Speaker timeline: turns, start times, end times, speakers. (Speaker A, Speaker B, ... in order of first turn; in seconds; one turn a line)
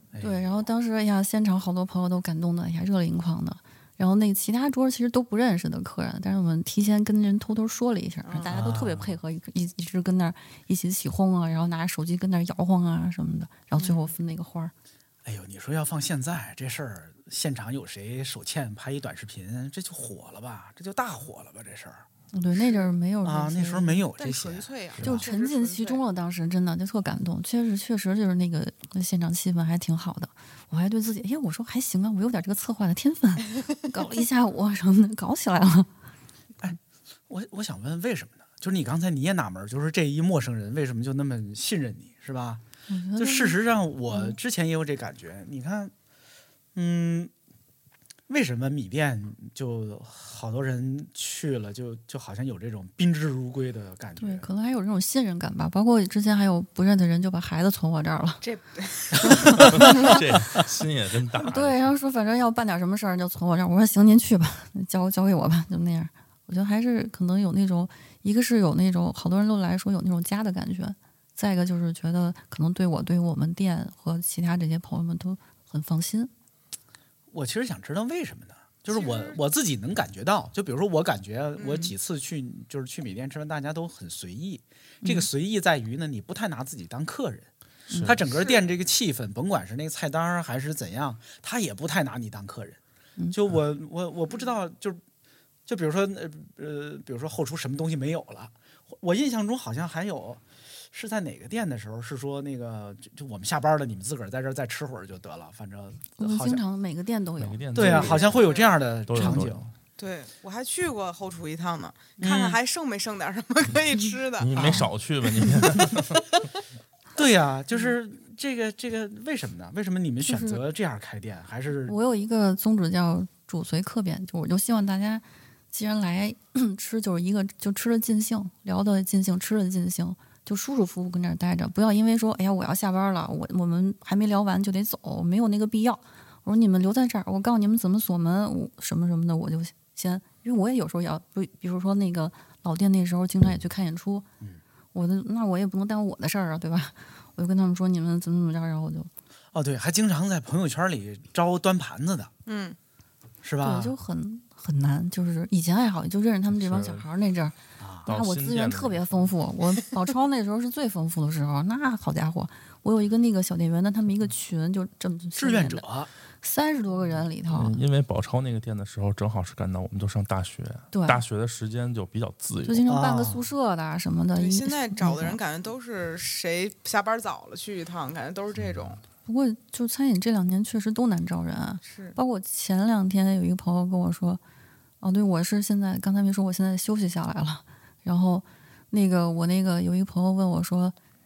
Speaker A: 0.1-0.7
Speaker B: 0.2-14.7
Speaker C: 8.2-8.5
Speaker A: 8.5-9.2
Speaker C: 13.8-14.1
Speaker A: 15.2-22.1
Speaker B: 22.3-24.0
Speaker C: 22.6-22.9
Speaker A: 23.2-25.2
Speaker C: 24.2-26.0
Speaker B: 25.0-35.9
Speaker A: 37.3-42.6
Speaker B: 42.9-43.6
Speaker A: 43.2-45.9
Speaker B: 44.1-44.4
Speaker A: 46.7-47.3
Speaker A: 48.3-54.5
Speaker B: 54.2-58.4
Speaker C: 58.4-59.4
Speaker A: 59.2-59.9
Speaker B: 59.2-60.2
Speaker D: 59.7-61.9
Speaker B: 61.4-76.3
Speaker A: 77.3-87.5
Speaker C: 78.9-79.4
Speaker C: 81.6-81.9
Speaker D: 87.9-88.2
Speaker A: 88.0-92.8
Speaker C: 88.3-88.6
Speaker A: 93.3-95.0
Speaker A: 95.7-106.6
Speaker B: 106.2-108.1
Speaker D: 107.4-108.4
Speaker A: 107.7-109.7
Speaker C: 107.9-108.8
Speaker D: 109.1-109.7
Speaker C: 110.0-114.5
Speaker A: 112.2-112.6
Speaker D: 114.4-116.2
Speaker A: 114.5-114.9
Speaker A: 117.2-122.0
Speaker B: 120.2-120.6
Speaker B: 121.9-144.3
Speaker B: 144.9-149.1
Speaker A: 149.5-152.3
Speaker C: 152.5-152.8
Speaker A: 153.4-153.9
Speaker B: 153.6-165.9
Speaker D: 156.5-157.1
Speaker A: 157.8-158.1
Speaker D: 158.1-159.3
Speaker A: 165.4-166.1
Speaker B: 166.4-167.8
Speaker D: 167.5-172.8
Speaker B: 170.9-171.2
Speaker B: 172.7-175.4
Speaker A: 172.9-173.4
Speaker C: 174.4-179.0
Speaker B: 179.3-184.4
Speaker C: 181.8-182.2
Speaker B: 185.0-190.9